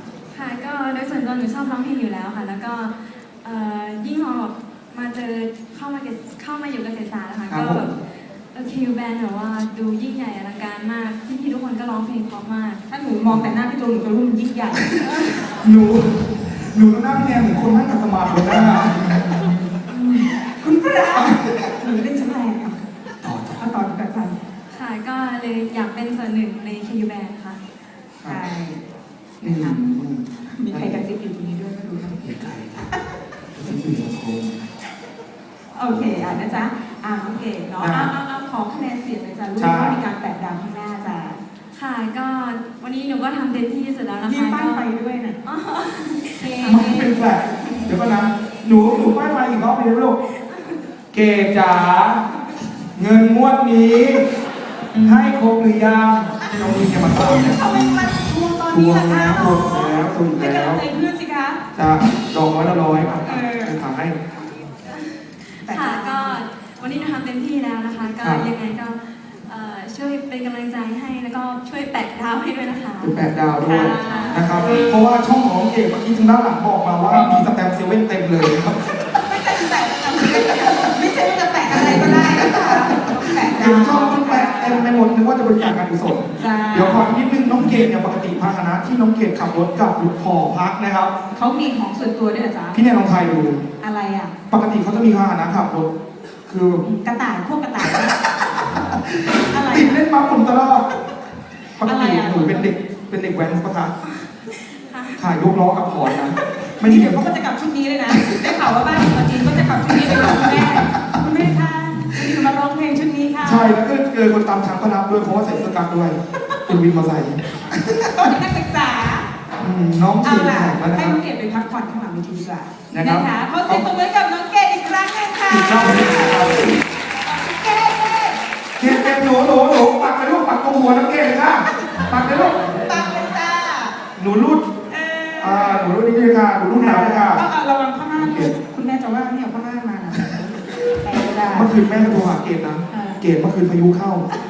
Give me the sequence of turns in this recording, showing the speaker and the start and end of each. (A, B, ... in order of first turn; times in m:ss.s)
0:00.3-0:12.8 A
0:07.5-0:07.9 B
0:12.9-0:15.4 C
0:13.3-0:13.5 B
0:15.4-0:19.7 B
0:19.9-0:22.8 C
0:21.1-0:21.7 B
0:23.2-0:23.6 B
0:23.6-0:24.4 C
0:24.7-0:27.6 A
0:28.2-0:28.8 C
0:29.4-0:31.0 B
0:29.4-0:29.8 C
0:30.5-0:32.4 C
0:32.2-0:32.9 B
0:33.5-0:34.7 B
0:35.7-0:41.4 C
0:37.8-0:38.1 B
0:39.6-0:40.0 B
0:41.7-0:44.8 A
0:44.2-0:45.4 C
0:45.4-0:46.9 A
0:46.4-0:47.1 C
0:46.6-0:50.2 B
0:50.4-0:50.8 A
0:51.1-0:52.2 B
0:52.9-0:54.2 B
0:54.9-0:57.8 B
0:57.4-1:01.6 C
0:58.7-1:00.8 B
1:01.7-1:04.2 B
1:03.2-1:03.8 C
1:05.6-1:06.4 C
1:05.6-1:13.2 A
1:08.2-1:08.5 B
1:13.0-1:19.0 B
1:13.6-1:14.9 C
1:13.8-1:14.8 A
1:19.2-1:24.9 C
1:21.7-1:31.1 B
1:26.4-1:27.1 C
1:31.3-1:32.8 C
1:32.7-1:33.6 B
1:33.8-1:34.3 C
1:34.5-1:35.9 B
1:36.5-1:36.8 B
1:36.8-1:38.2 C
1:38.9-1:40.9 B
1:39.4-1:40.0 C
1:41.8-1:43.9 B
1:41.8-1:42.7 C
1:44.3-1:45.2 A
1:45.2-1:47.2 B
1:46.8-1:53.8 C
1:48.1-1:48.5 B
1:49.9-1:50.8 B
1:52.1-1:52.4 B
1:53.4-1:58.4 B
1:58.1-1:59.3 C
1:59.6-2:01.2 B
2:00.2-2:09.1 C
2:02.9-2:03.9 B
2:05.5-2:06.8 B
2:08.8-2:13.0 B
2:11.8-2:14.0 C
2:14.2-2:14.7 B
2:14.9-2:15.9 C
2:15.4-2:17.4 B
2:16.7-2:21.8 C
2:18.1-2:18.5 B
2:21.5-2:24.2 B
2:22.9-2:23.2 C